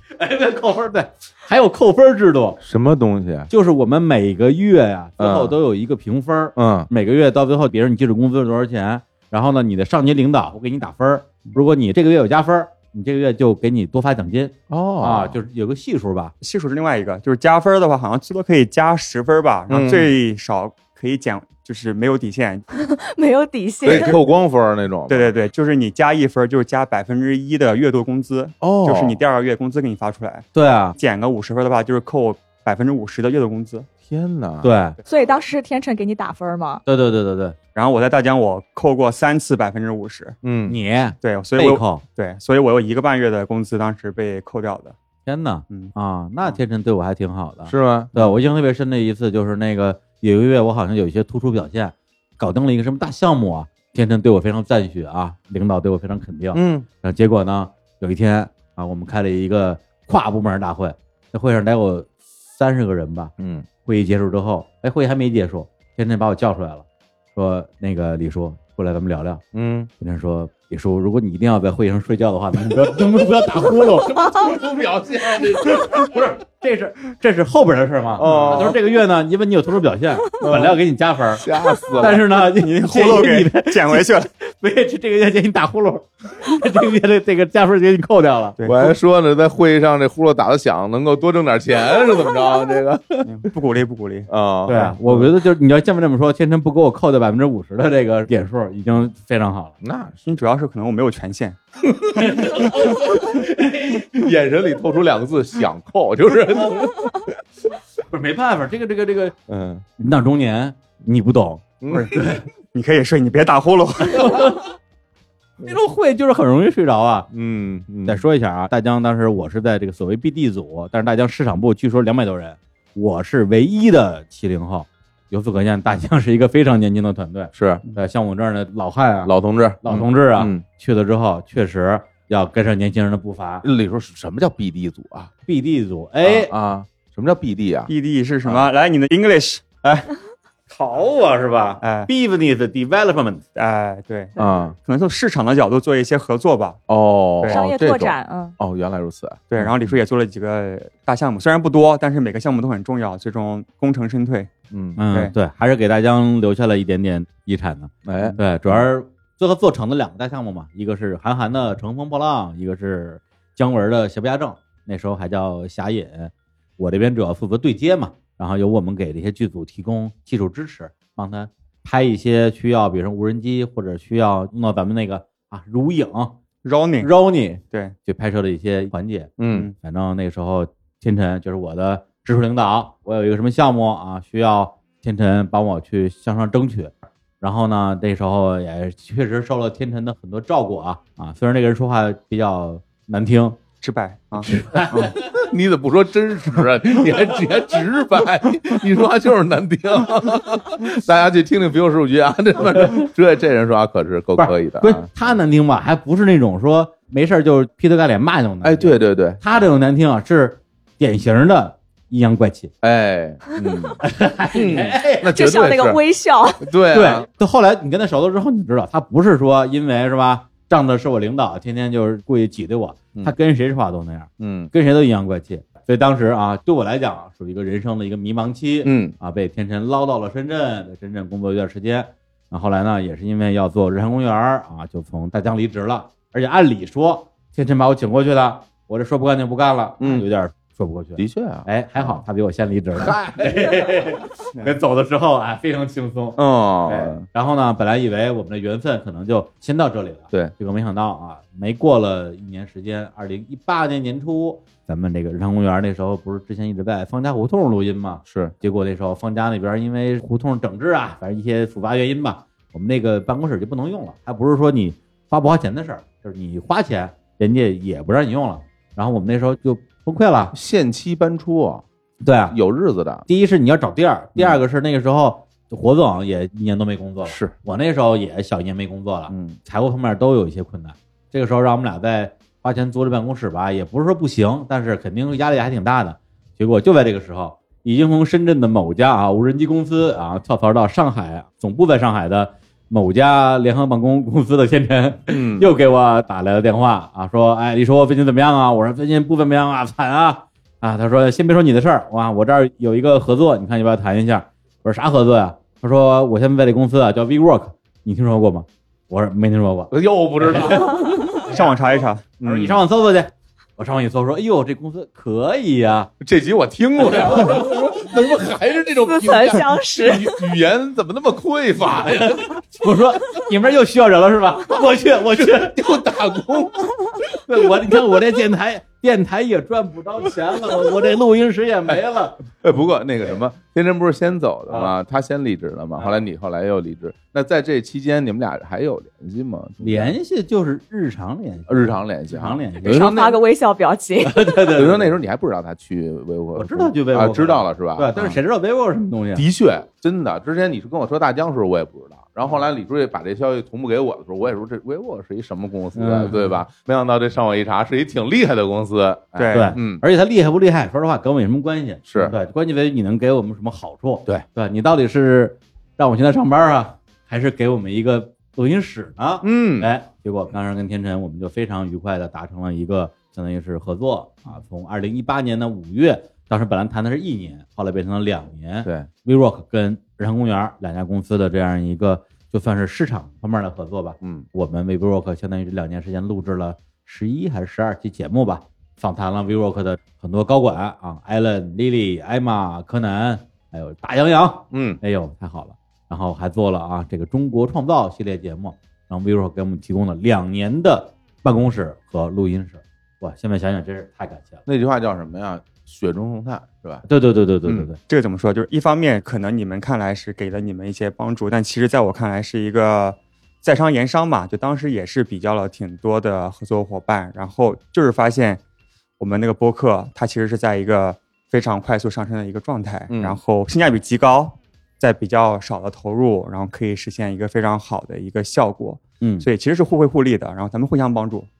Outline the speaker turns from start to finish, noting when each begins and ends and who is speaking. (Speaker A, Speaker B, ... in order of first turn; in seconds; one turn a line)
Speaker A: 0.2-2.6
Speaker B: 2.6-3.5
Speaker A: 3.5-16.3
Speaker B: 5.2-5.5
Speaker B: 6.5-6.9
Speaker B: 14.7-15.4
Speaker C: 16.4-22.6
Speaker B: 19.7-20.1
Speaker D: 22.8-24.1
Speaker B: 23.8-25.3
Speaker C: 23.9-24.1
Speaker C: 25.1-33.9
Speaker B: 28.6-29.2
Speaker A: 30.5-30.9
Speaker B: 34.0-34.7
Speaker A: 34.6-35.0
Speaker D: 35.0-36.8
Speaker A: 36.9-37.6
Speaker C: 37.7-40.4
Speaker B: 40.4-40.8
Speaker A: 40.7-42.0
Speaker C: 41.2-45.0
Speaker A: 45.2-63.3
Speaker C: 45.7-46.6
Speaker B: 47.7-48.1
Speaker B: 56.5-56.9
Speaker B: 63.4-63.6
Speaker A: 63.8-69.4
Speaker B: 69.5-69.9
Speaker A: 70.0-74.4
Speaker B: 73.7-76.2
Speaker A: 75.6-81.5
Speaker B: 78.2-78.8
Speaker C: 78.2-78.7
Speaker B: 80.4-80.8
Speaker B: 81.3-82.2
Speaker A: 82.0-88.6
Speaker C: 82.4-84.3
Speaker C: 88.6-88.9
Speaker B: 88.6-93.3
Speaker C: 93.2-94.3
Speaker B: 94.3-95.3
Speaker A: 94.7-99.7
Speaker B: 99.8-100.2
Speaker C: 100.2-101.6
Speaker B: 101.9-107.4
Speaker A: 102.2-104.0
Speaker A: 108.1-109.3
Speaker B: 109.5-109.8
Speaker A: 110.0-112.4
Speaker B: 111.8-112.2
Speaker C: 111.9-114.6
Speaker A: 114.1-114.6
Speaker A: 115.6-117.3
Speaker B: 117.3-118.2
Speaker A: 118.0-133.6
Speaker B: 127.5-127.8
Speaker B: 129.2-130.6
Speaker B: 133.6-135.3
Speaker A: 135.4-136.5
Speaker B: 136.2-137.9
Speaker C: 137.9-140.0
Speaker B: 138.4-138.7
Speaker A: 140.7-143.4
Speaker C: 141.8-142.1
Speaker C: 143.6-146.8
Speaker B: 144.4-144.8
Speaker B: 146.9-149.9
Speaker D: 147.5-148.6
Speaker C: 149.5-154.5
Speaker B: 154.7-155.0
Speaker A: 155.0-176.4
Speaker B: 158.0-158.8
Speaker C: 176.6-177.1
Speaker A: 177.0-193.6
Speaker B: 179.4-179.7
Speaker C: 179.5-179.7
Speaker C: 193.8-195.1
Speaker A: 194.4-195.2
Speaker B: 195.2-205.1
Speaker A: 204.4-212.7
Speaker B: 208.6-209.4
Speaker B: 212.8-214.0
Speaker A: 214.0-215.3
Speaker B: 214.5-216.0
Speaker D: 215.3-216.7
Speaker B: 216.6-217.2
Speaker A: 216.9-270.5
Speaker B: 224.4-224.7
Speaker B: 228.8-229.1
Speaker B: 240.0-240.2
Speaker B: 241.2-242.2
Speaker B: 242.9-244.2
Speaker B: 246.3-247.2
Speaker B: 258.3-258.5
Speaker B: 270.5-271.8
Speaker A: 272.2-272.6
Speaker B: 272.5-273.2
Speaker A: 273.2-311.7
Speaker B: 277.2-277.5
Speaker B: 279.3-279.6
Speaker B: 295.3-295.7
Speaker B: 309.9-311.1
Speaker C: 311.4-312.2
Speaker B: 312.4-312.8
Speaker A: 312.4-316.1
Speaker B: 316.2-322.6
Speaker A: 317.0-317.8
Speaker D: 319.0-320.5
Speaker A: 322.0-325.8
Speaker B: 325.1-326.9
Speaker A: 327.4-332.4
Speaker B: 332.5-340.1
Speaker A: 334.7-334.9
Speaker A: 339.8-343.1
Speaker B: 341.7-343.4
Speaker D: 342.8-344.5
Speaker A: 344.2-345.2
Speaker B: 344.7-348.4
Speaker A: 346.6-349.4
Speaker B: 349.3-360.0
Speaker A: 355.9-356.5
Speaker C: 359.4-359.8
Speaker A: 359.5-404.6
Speaker B: 362.1-362.4
Speaker B: 369.4-369.9
Speaker B: 384.2-384.5
Speaker B: 394.7-395.0
Speaker B: 404.6-407.0
Speaker A: 407.0-408.0
Speaker B: 407.6-407.9
Speaker C: 408.1-418.6
Speaker C: 419.2-431.5
Speaker B: 423.1-423.4
Speaker A: 429.2-429.5